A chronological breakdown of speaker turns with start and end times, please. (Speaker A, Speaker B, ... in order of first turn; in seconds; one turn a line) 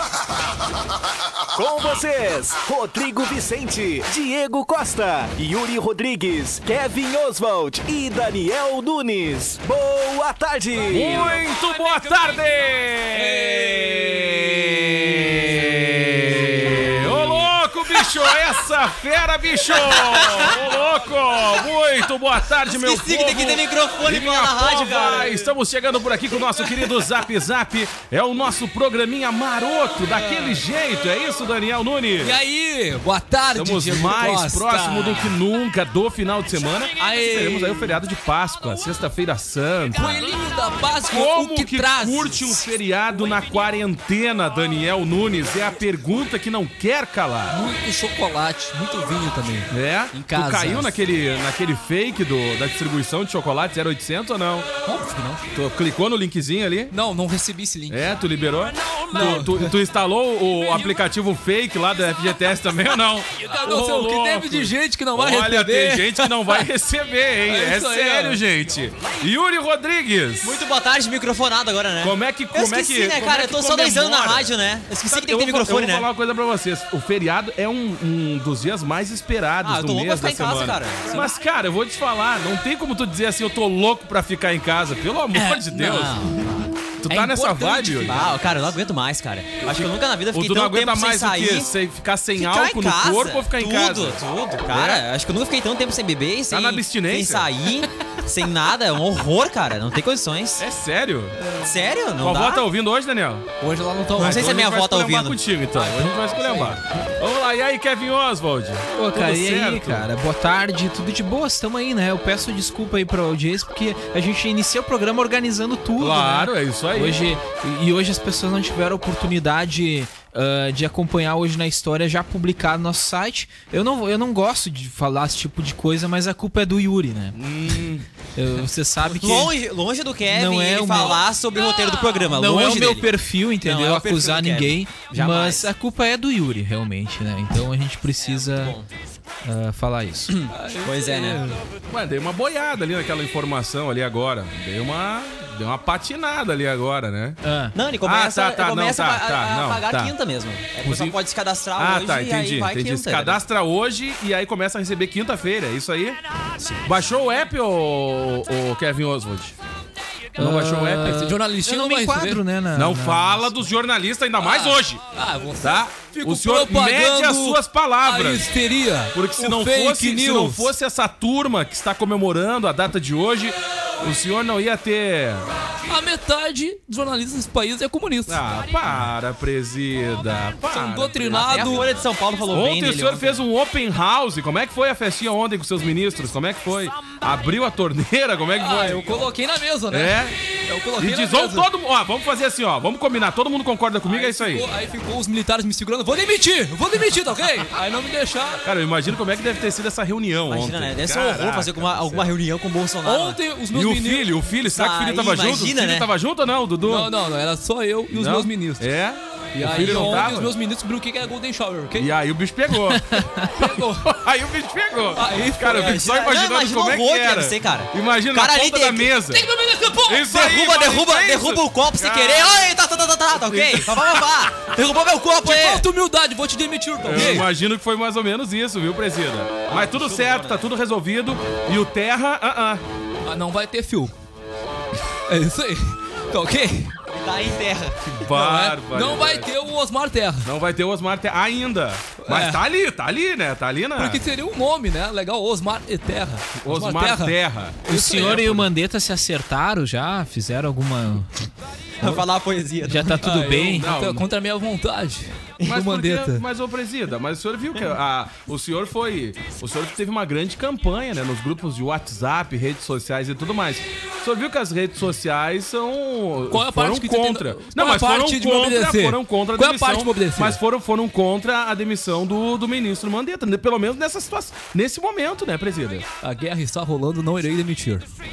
Speaker A: 1.5-11.2
Speaker B: 10.9-32.4
Speaker C: 10.9-12.6
Speaker C: 13.1-14.4
Speaker D: 19.8-20.5
Speaker D: 22.6-25.5
Speaker C: 30.1-30.6
Speaker C: 32.2-35.4
Speaker B: 33.5-40.3
Speaker C: 36.9-38.0
Speaker C: 39.9-42.7
Speaker B: 41.1-47.6
Speaker C: 47.5-50.9
Speaker B: 49.7-54.7
Speaker C: 54.9-55.5
Speaker B: 55.5-56.9
Speaker C: 56.9-58.1
Speaker B: 57.9-70.6
Speaker C: 59.1-59.7
Speaker C: 60.7-61.0
Speaker C: 63.4-66.7
Speaker C: 67.4-68.4
Speaker D: 70.4-76.1
Speaker B: 72.0-86.2
Speaker D: 79.6-81.3
Speaker C: 85.3-86.5
Speaker B: 87.0-88.2
Speaker C: 87.0-88.4
Speaker D: 88.1-91.7
Speaker B: 89.6-95.0
Speaker D: 92.3-100.6
Speaker B: 96.5-97.5
Speaker B: 100.6-101.4
Speaker D: 101.5-102.6
Speaker B: 102.2-103.5
Speaker C: 103.6-104.5
Speaker B: 104.2-110.1
Speaker D: 104.2-105.4
Speaker C: 105.7-106.8
Speaker E: 108.9-127.4
Speaker B: 116.0-117.2
Speaker B: 127.3-128.1
Speaker E: 128.3-129.5
Speaker D: 129.1-133.1
Speaker E: 130.3-131.2
Speaker C: 131.5-132.3
Speaker E: 132.3-138.7
Speaker D: 133.6-135.7
Speaker D: 138.2-138.9
Speaker E: 139.4-140.3
Speaker D: 140.3-141.4
Speaker C: 140.5-141.6
Speaker B: 141.9-147.4
Speaker E: 147.4-147.8
Speaker D: 147.7-153.4
Speaker B: 148.0-150.1
Speaker B: 150.8-151.2
Speaker B: 151.8-156.2
Speaker B: 156.8-159.5
Speaker B: 160.4-161.2
Speaker E: 160.4-163.5
Speaker C: 161.0-162.4
Speaker B: 162.7-165.0
Speaker C: 164.4-170.7
Speaker B: 165.6-168.5
Speaker B: 169.1-175.5
Speaker C: 175.9-178.4
Speaker B: 178.3-189.3
Speaker C: 180.7-181.9
Speaker D: 181.3-183.4
Speaker C: 188.5-191.7
Speaker B: 189.9-190.4
Speaker B: 191.0-194.7
Speaker C: 194.0-198.6
Speaker B: 198.6-202.3
Speaker D: 200.5-203.4
Speaker C: 203.0-204.3
Speaker B: 203.7-207.1
Speaker D: 204.7-206.1
Speaker C: 206.8-208.8
Speaker B: 208.1-210.5
Speaker C: 209.5-212.1
Speaker D: 209.7-210.3
Speaker B: 211.9-222.7
Speaker E: 212.9-213.5
Speaker C: 213.6-214.2
Speaker C: 215.1-216.0
Speaker D: 215.7-219.1
Speaker C: 219.3-220.3
Speaker D: 220.3-225.8
Speaker B: 223.3-224.0
Speaker C: 225.3-227.5
Speaker B: 227.0-232.8
Speaker D: 229.7-230.7
Speaker C: 233.2-234.1
Speaker C: 235.3-237.0
Speaker D: 237.1-238.2
Speaker B: 238.2-239.5
Speaker C: 238.2-240.5
Speaker B: 240.4-244.2
Speaker C: 242.2-242.6
Speaker C: 243.9-248.6
Speaker B: 246.6-248.7
Speaker E: 247.9-251.3
Speaker D: 252.0-253.3
Speaker E: 252.8-253.9
Speaker C: 253.2-256.4
Speaker B: 253.3-254.3
Speaker B: 255.6-276.1
Speaker C: 266.5-270.6
Speaker C: 276.2-278.1